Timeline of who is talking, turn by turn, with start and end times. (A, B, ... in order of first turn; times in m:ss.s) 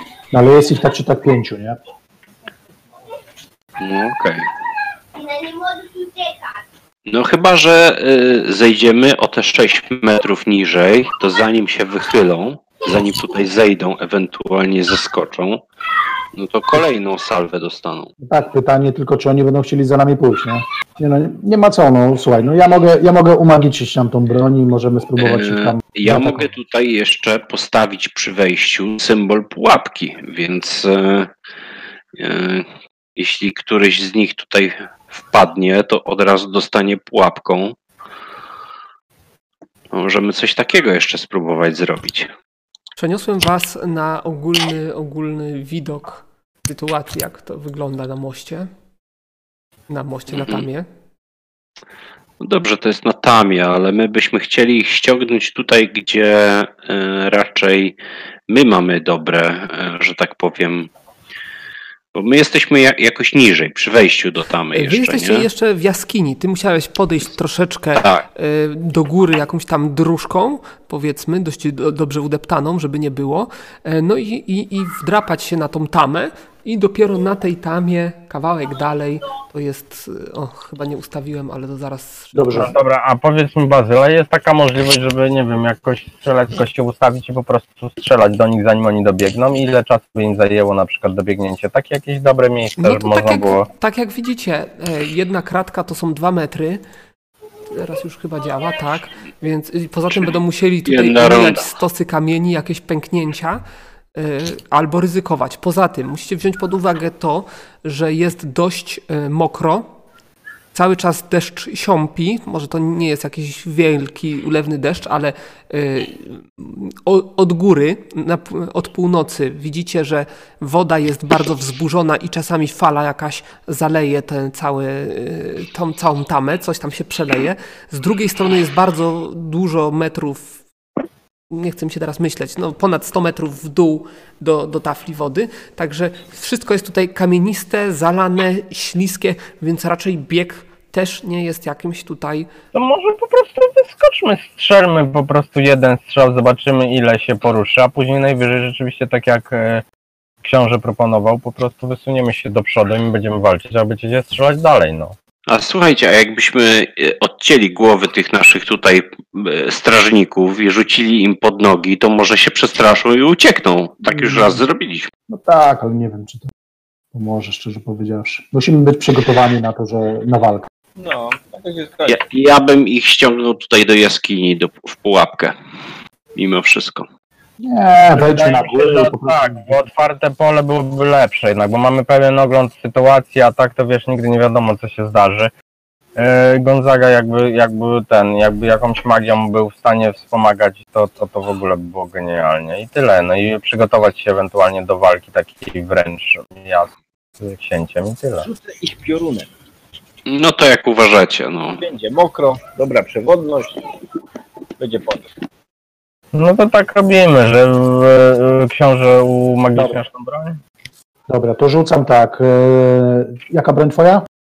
0:00.3-0:01.8 A
0:03.8-0:04.5 B
0:07.1-0:15.6 B
0:16.3-0:18.1 B
0:18.2-0:26.5 A
0:25.2-0:31.3 B
0:32.1-0:37.8 B
0:39.9-0:42.3 B
0:43.0-0:48.7 C
0:49.9-0:50.9 C
0:50.3-0:50.6 B
0:52.4-0:58.0 B
0:58.5-1:00.9 B
1:02.1-1:05.5 B
1:04.7-1:22.4 C
1:08.0-1:08.2 B
1:22.3-1:22.7 A
1:22.5-1:33.7 D
1:32.8-1:36.8 C
1:37.7-1:43.6 C
1:40.8-1:41.7 B
1:44.1-1:49.9 C
1:50.7-2:10.6 C
2:11.5-2:22.5 C
2:22.7-2:29.8 D
2:30.4-2:35.2 D
2:35.5-2:45.1 B
2:44.1-2:44.6 A
2:45.3-2:46.5 A
2:47.1-2:50.7 A
2:51.0-2:52.2 E
2:52.0-2:55.6 B
2:56.3-2:57.1 B
2:57.6-2:59.8 A
2:58.1-3:05.5 D
3:06.1-3:18.5 D
3:18.4-3:19.5 E
3:20.2-3:21.8 B
3:21.8-3:23.9 E
3:24.8-3:25.3 E
3:26.3-3:30.6 D
3:31.3-3:34.2 A